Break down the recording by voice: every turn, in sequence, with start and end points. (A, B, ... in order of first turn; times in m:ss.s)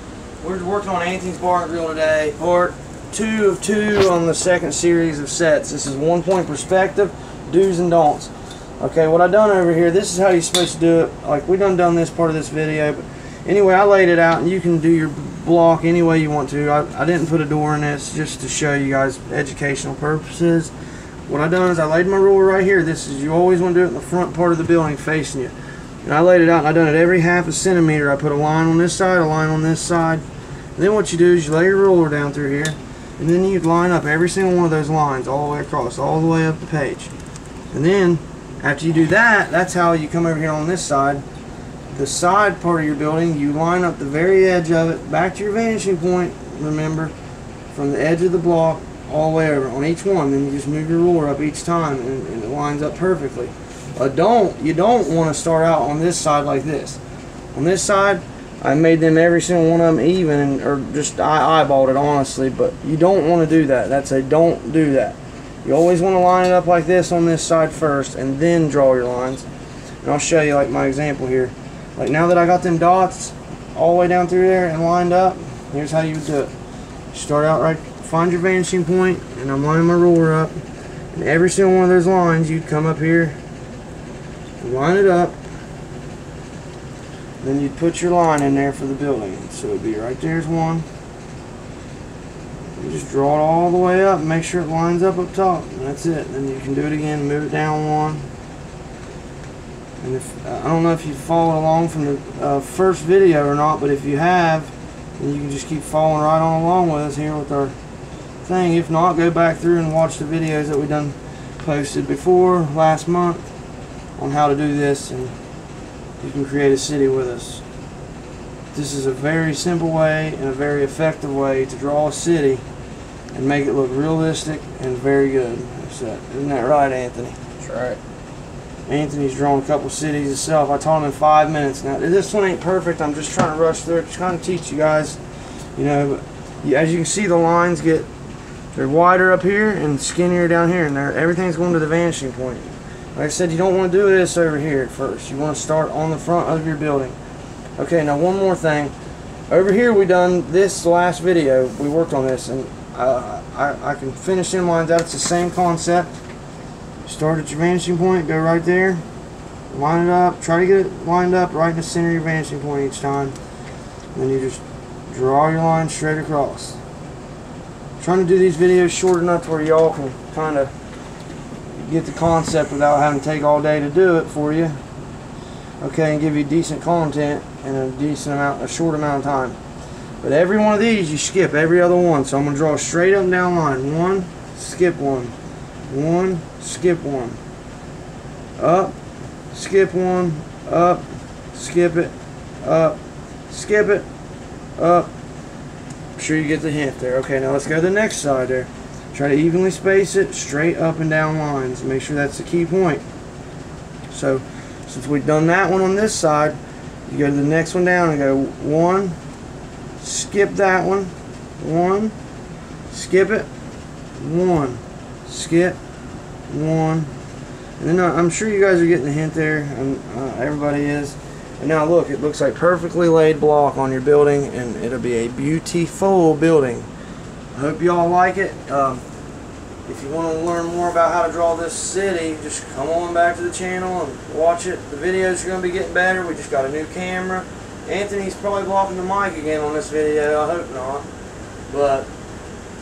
0:00.4-0:20.7 A
0:21.3-0:30.2 A
0:30.8-0:37.1 A
0:37.7-0:41.2 A
0:41.9-0:47.1 A
0:47.7-0:57.0 A
0:57.5-1:09.5 A
1:10.0-1:16.5 A
1:17.1-1:20.5 A
1:21.1-1:23.4 A
1:24.6-1:25.4 A
1:27.4-1:30.9 A
1:32.8-1:38.3 A
1:40.0-1:47.7 A
1:48.4-1:53.5 A
1:54.2-1:55.3 A
1:56.2-1:57.6 A
1:58.7-2:02.6 A
2:03.3-2:08.0 A
2:08.9-2:15.2 A
2:15.8-2:18.1 A
2:18.8-2:27.2 A
2:27.8-2:28.9 A
2:29.5-2:36.1 A
2:37.0-2:39.0 A
2:39.7-2:43.4 A
2:44.2-2:46.8 A
2:48.0-2:50.7 A
2:51.7-2:54.8 A
2:55.8-2:59.6 A
3:00.2-3:05.3 A
3:05.9-3:07.4 A
3:08.6-3:09.0 A
3:09.5-3:13.0 A
3:13.5-3:14.1 A
3:14.8-3:15.1 A
3:16.2-3:23.0 A
3:24.1-3:29.2 A
3:30.0-3:32.2 A
3:32.9-3:33.5 A
3:34.2-3:35.8 A
3:36.5-3:37.1 A
3:37.8-3:46.9 A
3:47.6-3:49.0 A
3:49.9-4:01.1 A
4:01.7-4:02.1 A